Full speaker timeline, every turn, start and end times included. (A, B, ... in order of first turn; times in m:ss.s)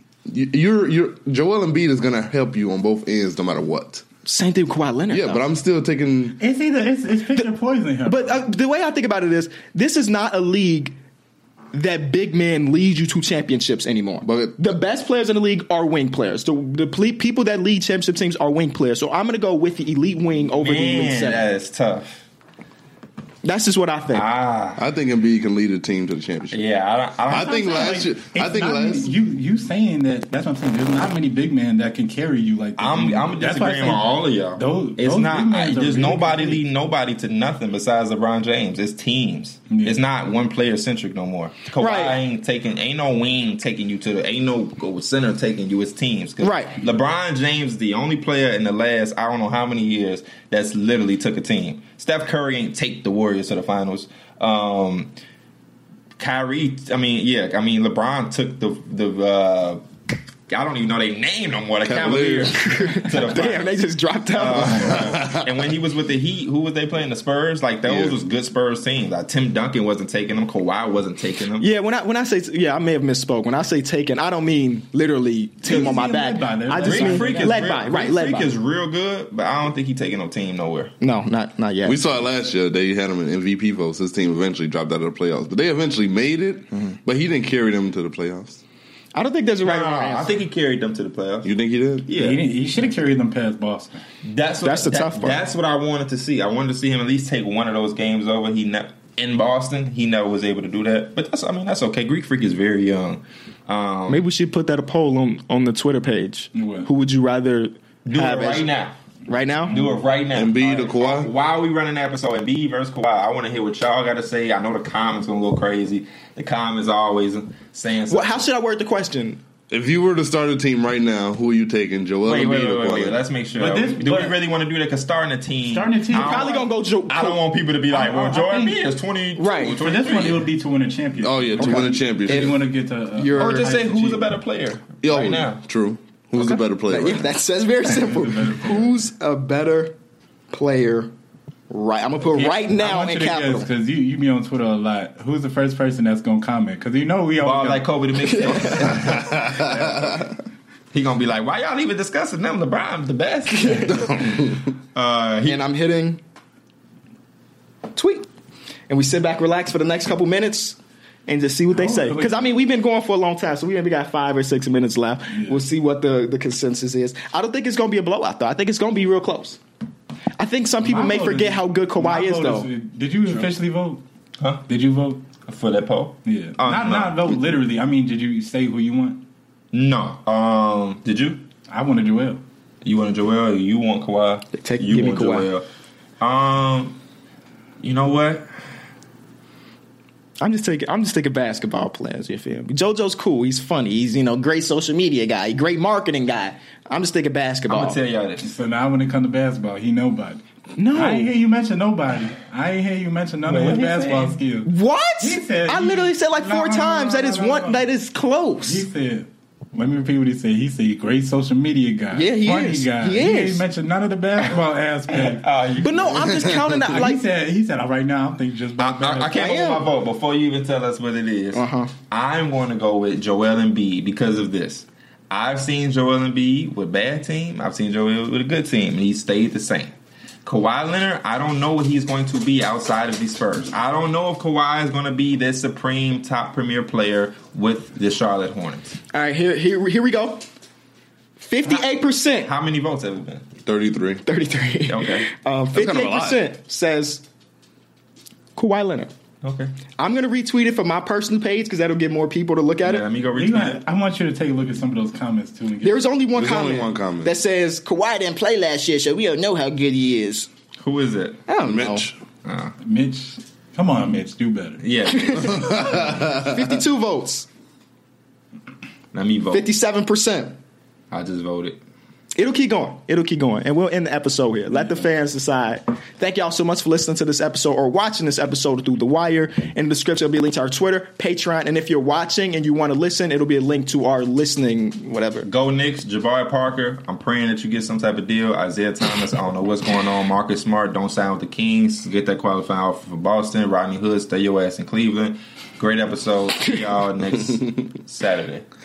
0:00.3-0:04.0 A
0:04.2-0:05.4 B
0:05.1-0:06.4 A
0:06.4-0:08.4 C
0:08.0-0:10.9 B
0:11.7-0:21.4 B
0:14.2-0:14.6 A
0:20.6-0:22.2 D
0:23.4-0:24.3 B
0:24.1-0:24.8 D
0:24.8-0:26.6 A
0:26.5-0:28.0 D
0:27.3-0:29.1 A
0:27.3-0:36.6 C
0:32.8-0:55.1 D
0:39.7-0:40.0 C
0:41.8-0:42.2 B
0:46.4-0:46.8 B
0:56.2-0:59.8 D
1:00.5-1:11.7 D
1:01.8-1:02.7 A
1:02.6-1:05.1 B
1:04.6-1:05.6 A
1:07.9-1:08.2 A
1:11.6-1:18.5 B
1:15.6-1:17.8 C
1:16.8-1:20.9 D
1:21.0-1:22.0 B
1:21.8-1:28.6 A
1:29.1-1:30.4 B
1:29.6-1:31.5 D
1:31.4-1:32.1 A
1:32.0-1:32.4 D
1:32.2-1:34.0 C
1:34.2-1:44.2 D
1:34.6-1:35.4 B
1:44.1-1:48.7 B
1:46.6-1:46.9 C
1:48.0-1:49.0 D
1:49.3-1:49.8 B
1:49.7-1:58.4 D
1:49.7-1:50.0 C
1:50.3-1:51.3 A
1:58.1-1:59.4 B
1:59.7-2:03.2 A
2:02.3-2:10.5 D
2:03.6-2:04.4 C
2:05.7-2:06.7 C
2:06.1-2:07.4 B
2:07.9-2:08.9 C
2:09.4-2:09.8 B
2:09.6-2:14.4 C
2:11.2-2:12.6 A
2:11.6-2:12.5 B
2:13.2-2:13.7 B
2:13.3-2:15.6 D
2:15.0-2:17.3 A
2:16.4-2:19.9 B
2:17.9-2:19.0 C
2:20.5-2:21.1 B
2:21.7-2:23.7 B
2:22.4-2:27.9 C
2:27.4-2:29.9 D
2:28.3-2:29.1 B
2:29.0-2:30.3 A
2:30.9-2:35.6 D
2:33.6-2:33.9 B
2:33.9-2:34.5 A
2:35.4-2:36.2 B
2:38.0-2:38.3 B
2:38.9-2:49.6 B
2:41.7-2:42.5 C
2:45.3-2:45.6 C
2:50.4-2:52.7 B
2:50.8-2:54.0 C
2:54.7-2:55.2 C
2:55.4-2:57.3 D
2:56.2-2:59.2 C
2:59.7-3:01.4 D
3:01.7-3:02.4 C
3:02.8-3:05.6 D
3:04.5-3:05.5 B
3:06.2-3:07.0 D
3:07.8-3:08.5 D
3:10.4-3:18.0 B
3:17.7-3:18.5 D
3:18.4-3:20.4 C
3:20.8-3:21.3 B
3:20.9-3:27.8 C
3:23.4-3:24.4 D
3:24.6-3:28.9 B
3:28.7-3:35.5 C
3:32.1-3:33.6 B
3:35.1-3:36.3 D
3:35.8-3:37.2 B
3:36.6-3:39.6 C
3:38.8-3:59.0 D
3:39.4-3:39.9 B
3:41.5-3:41.9 B
3:59.1-4:00.4 B
4:01.4-4:02.5 B
4:02.4-4:03.5 D
4:03.6-4:04.2 A
4:04.3-4:07.2 B
4:04.9-4:05.3 D
4:05.7-4:06.4 A
4:08.6-4:09.1 B
4:09.4-4:09.7 D
4:10.0-4:13.0 B
4:12.8-4:13.8 D
4:13.4-4:16.0 C
4:15.8-4:20.5 B
4:16.4-4:17.4 A
4:20.8-4:21.4 D
4:21.5-4:22.1 B
4:21.6-4:22.2 A
4:22.4-4:22.7 D
4:22.8-4:24.8 C
4:24.8-4:26.1 D
4:25.1-4:27.5 B
4:25.5-4:26.8 A
4:29.1-4:29.7 D
4:29.5-4:30.6 B
4:31.1-4:31.8 D
4:32.4-4:45.5 B
4:45.4-4:58.7 D